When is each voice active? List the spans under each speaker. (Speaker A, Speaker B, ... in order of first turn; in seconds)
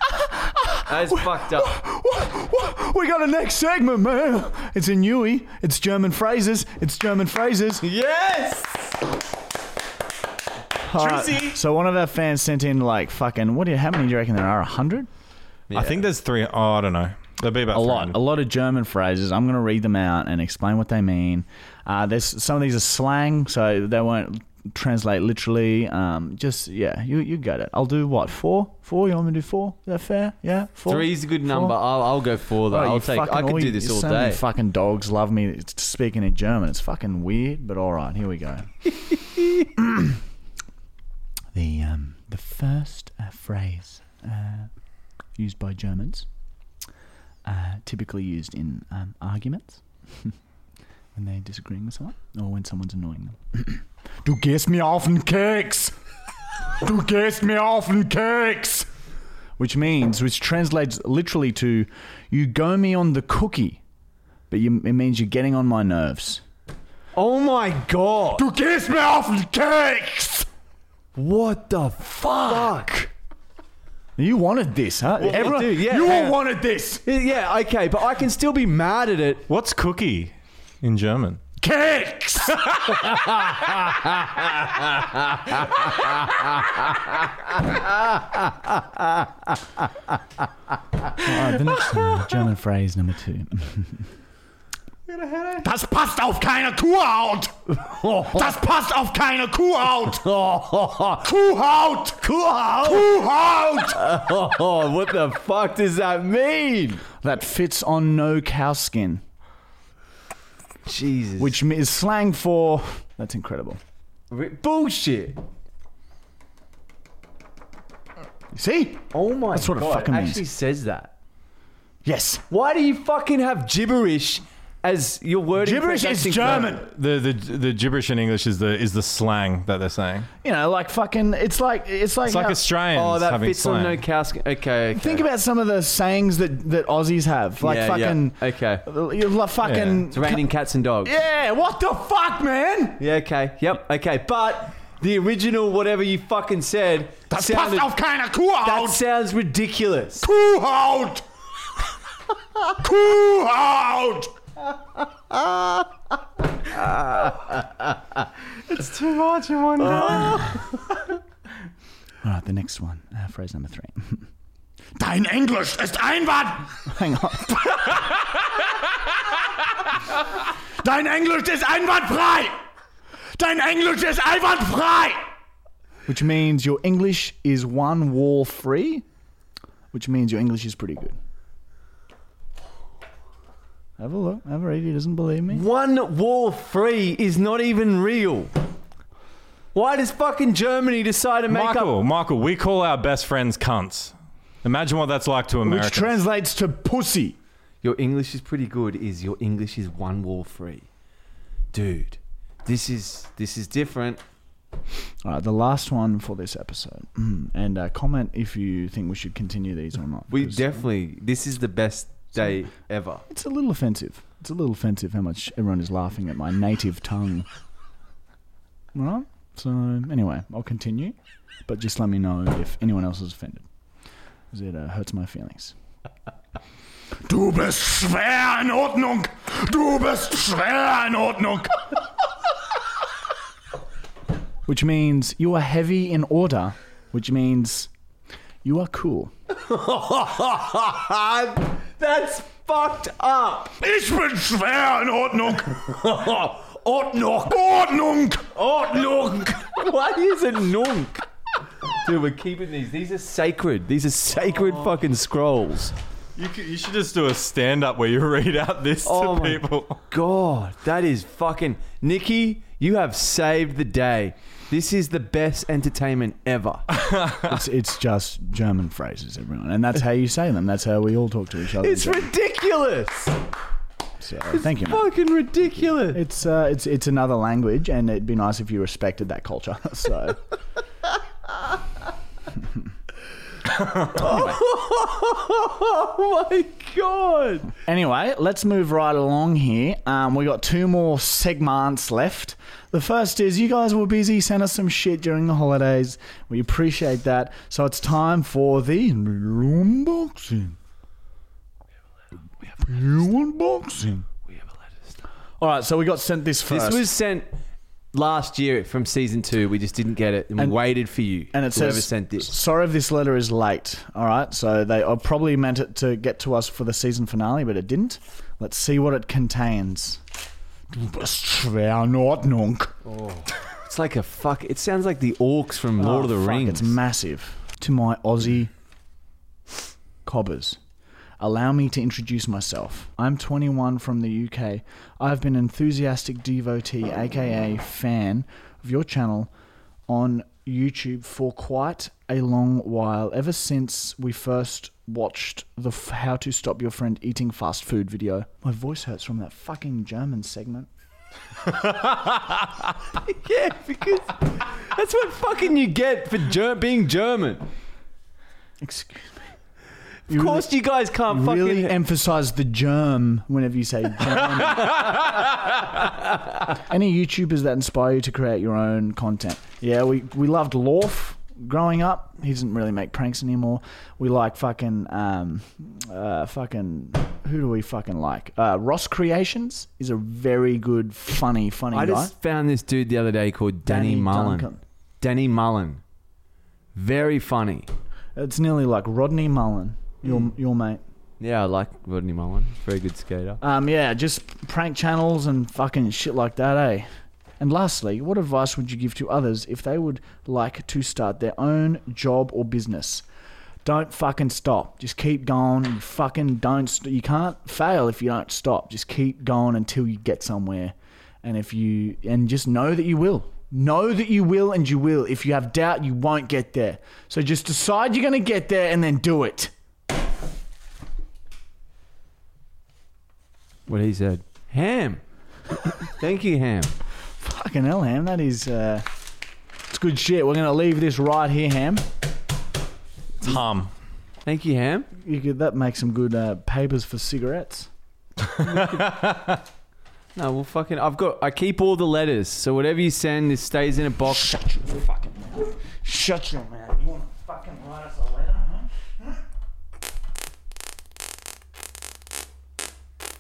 Speaker A: 0.9-1.8, 7.8-9.0, 15.7-16.1, 30.9-34.4, 67.2-68.5, 71.2-73.1, 75.2-76.4, 77.1-79.5, 85.2-89.3, 97.8-98.5, 100.1-101.2, 103.9-107.0, 110.9-111.6, 114.3-115.4, 119.1-121.1, 122.5-126.8, 132.9-135.3, 137.6-138.9, 140.1-141.2, 143.0-147.9, 148.6-150.3, 155.3-155.8, 156.7-157.7, 159.8-160.6, 185.5-188.5, 189.7-191.9, 197.8-200.9, 201.7-204.2, 210.3-213.2, 239.6-243.8, 245.7-247.6, 248.5-251.2, 252.0-255.9, 259.1-266.9, 271.8-273.4, 274.5-276.2, 284.1-287.7, 306.7-307.5, 308.1-312.6, 323.1-327.0, 353.2-357.7, 360.3-362.0, 364.9-365.4, 381.9-384.7, 385.2-386.0, 386.9-387.9, 391.4-393.6, 423.9-425.2, 426.0-426.9, 434.4-435.1, 438.6-439.1, 440.4-444.6
Speaker B: 1.1-7.8, 10.8-15.1, 17.7-31.8, 32.7-38.7, 39.8-40.2, 41.5-44.7, 45.4-46.3, 47.5-50.3, 51.2-56.0, 56.8-58.9, 59.6-63.8, 64.5-66.4, 68.4-70.5, 72.2-72.9, 74.2-77.0, 81.6-83.2, 91.2-94.0, 95.6-100.4, 101.2-104.0, 107.2-109.2, 111.4-113.8, 118.5-120.4, 122.0-122.4, 125.6-126.9, 130.4-132.6, 134.9-140.4, 141.0-143.0, 147.3-149.0, 150.2-151.2, 152.7-154.3, 160.2-160.4, 162.2-164.3, 165.0-168.2, 170.8-172.6, 173.4-175.3, 176.1-179.1, 179.9-181.2, 184.0-185.6, 195.6-197.4, 205.2-210.8, 213.3-217.5, 218.9-221.2, 221.7-223.7, 224.5-225.8, 227.3-231.9, 234.7-237.9, 238.6-239.3, 243.8-246.0, 247.3-248.6, 267.4-272.3, 274.2-275.1, 276.1-280.4, 284.1-284.5, 287.8-300.8, 302.8-304.3, 305.6-307.1, 311.5-320.2, 320.9-322.9, 326.0-328.7, 330.2-330.8, 331.4-339.5, 340.1-350.9, 358.8-359.5, 360.3-360.7, 361.3-365.2, 366.8-382.3, 383.9-384.8, 388.4-391.0, 393.6-397.1, 397.6-403.2, 403.9-419.7, 427.4-429.1, 429.9-432.1, 435.2-437.9, 444.3-448.9
Speaker C: 10.9-11.6, 15.7-18.2, 79.5-81.4, 91.8-92.3, 95.1-95.7, 126.8-130.3, 132.2-134.0, 139.6-140.1, 158.7-160.6, 191.5-196.2, 256.4-260.0, 266.9-267.6, 433.4-433.9, 438.4-439.6